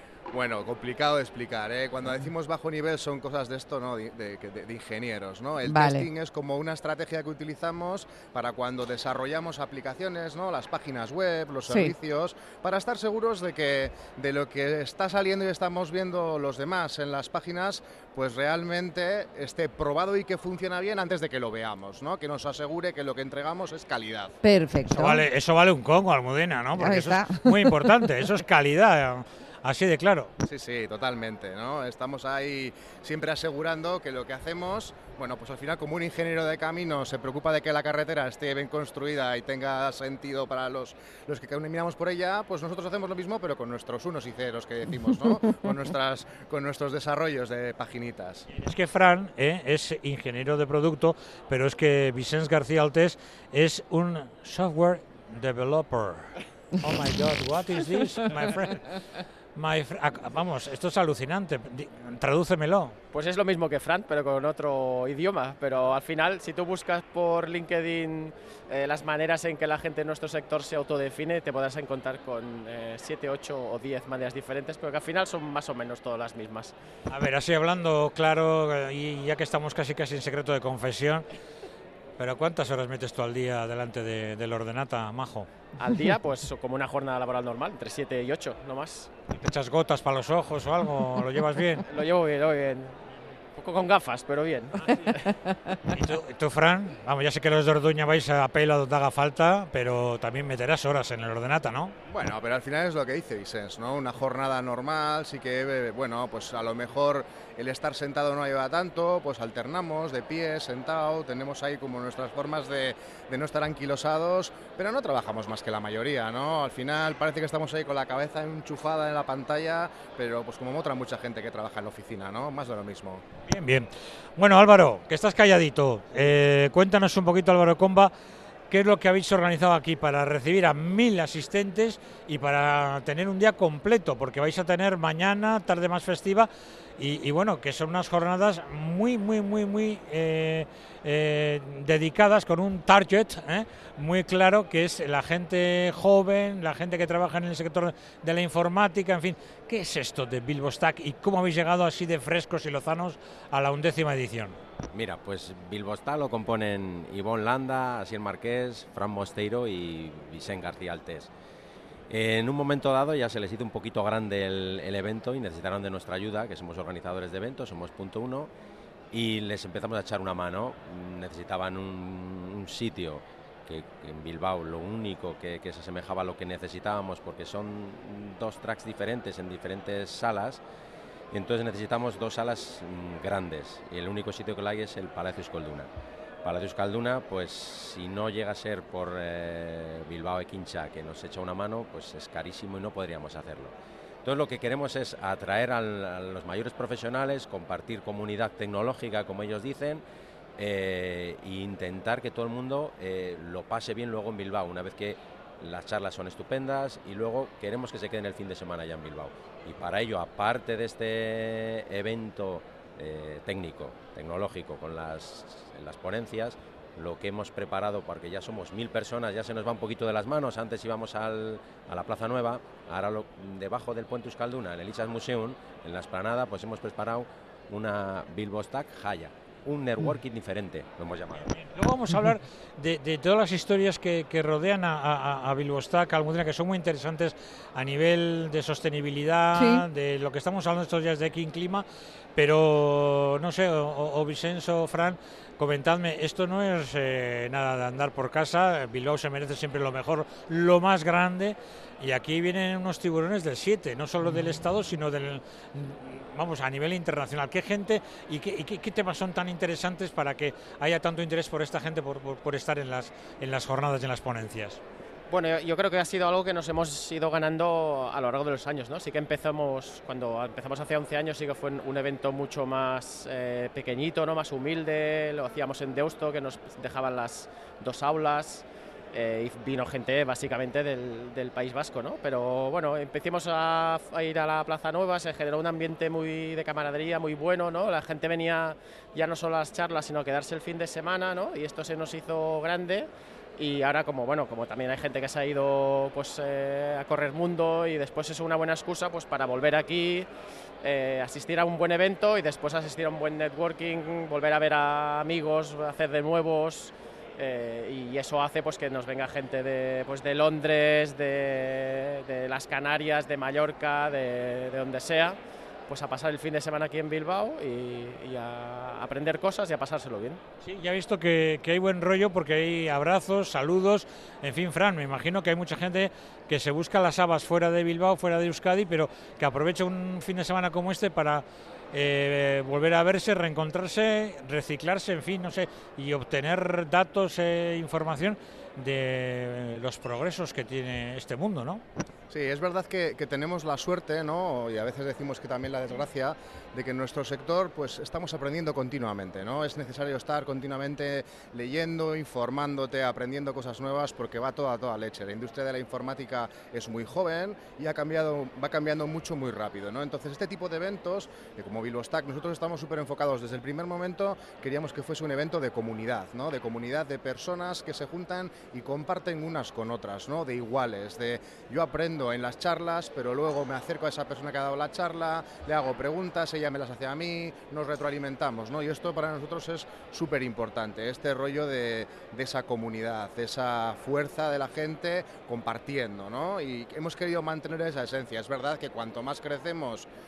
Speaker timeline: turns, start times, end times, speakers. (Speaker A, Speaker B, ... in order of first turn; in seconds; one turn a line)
Speaker A: 0.3-24.3
Speaker B: 5.6-6.1
Speaker B: 11.7-11.9
Speaker B: 24.4-25.2
Speaker C: 24.9-30.3
Speaker B: 26.8-27.9
Speaker A: 30.4-48.5
Speaker C: 48.5-58.9
Speaker C: 59.5-63.0
Speaker D: 63.1-76.7
Speaker C: 77.1-81.2
Speaker C: 82.2-85.5
Speaker D: 85.8-89.1
Speaker C: 89.3-91.8
Speaker D: 91.8-93.0
Speaker D: 93.5-95.3
Speaker C: 94.9-95.1
Speaker C: 95.8-101.9
Speaker A: 102.1-123.2
Speaker C: 123.5-128.1
Speaker C: 128.7-154.6
Speaker E: 154.9-161.3
Speaker E: 162.1-168.5
Speaker E: 169.1-180.6
Speaker E: 181.3-185.9
Speaker E: 186.4-193.7
Speaker E: 194.2-200.0
Speaker E: 200.6-231.5
Speaker C: 231.4-241.8
Speaker B: 239.5-239.8
Speaker C: 242.3-264.8
Speaker D: 265.3-300.3
Speaker D: 300.8-320.4
Speaker C: 320.6-341.8
Speaker A: 342.3-390.1